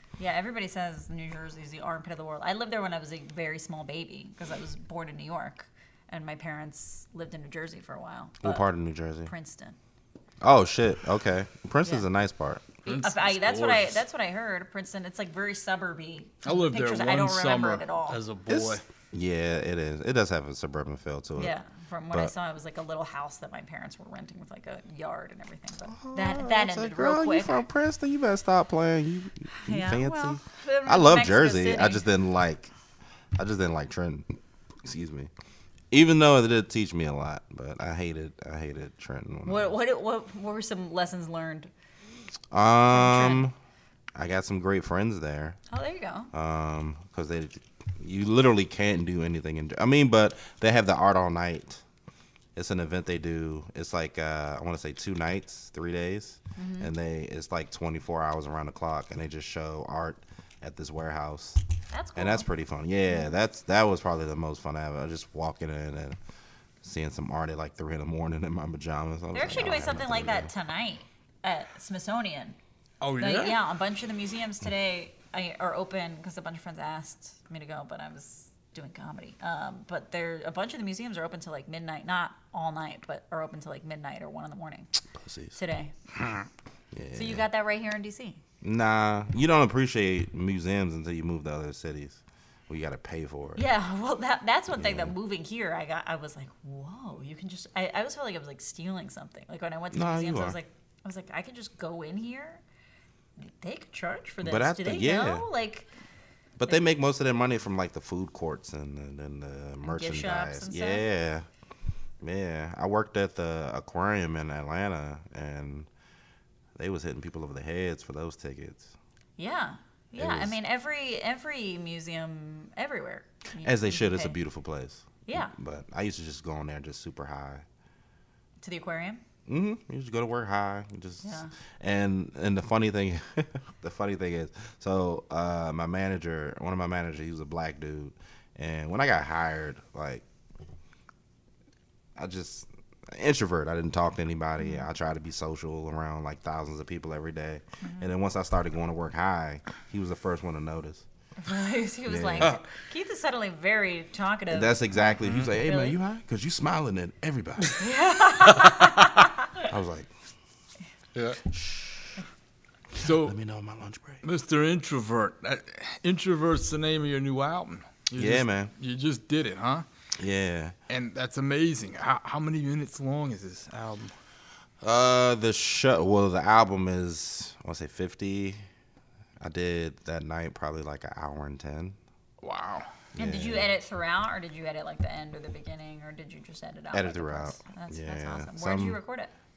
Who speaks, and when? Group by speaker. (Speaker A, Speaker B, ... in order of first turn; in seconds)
Speaker A: 0.2-8.7, 9.2-9.8, 12.8-18.2, 21.4-27.6, 29.6-32.0, 39.4-41.7, 42.9-43.4, 45.7-46.3, 56.5-56.9, 61.9-62.5, 63.1-63.4, 69.3-72.6, 73.2-84.9, 85.5-85.9, 87.1-88.4, 93.5-102.6, 103.4-105.9, 109.8-111.0, 119.4-124.3, 125.2-125.5, 128.6-129.2, 131.2-131.5, 144.6-144.9, 147.8-148.1, 151.4-154.8, 155.5-156.0, 157.8-159.5, 183.2-189.3
Speaker B: 8.4-9.3, 10.4-12.8, 18.5-21.5, 25.9-32.7, 33.4-35.3, 35.9-39.7, 42.5-43.5, 44.1-45.6, 46.3-51.8, 52.5-61.6, 62.1-66.2, 66.8-70.5, 85.1-85.5, 86.9-87.4, 88.6-93.6, 94.7-95.1, 99.9-100.6, 104.4-105.5, 106.6-111.5, 112.2-115.9, 116.8-118.9, 120.2-120.6, 123.6-127.6, 129.5-140.2, 142.2-151.0, 152.1-152.6, 154.5-157.8, 159.6-160.1, 161.5-162.1, 162.9-164.2, 168.2-168.7, 170.2-170.7, 174.8-178.6, 179.4-182.0, 183.1-183.7, 186.9-189.0
Speaker C: 12.8-14.0, 16.4-18.8, 73.0-73.6, 86.2-86.4, 155.2-155.5, 162.9-163.3, 164.2-169.8, 170.9-174.1, 182.4-182.9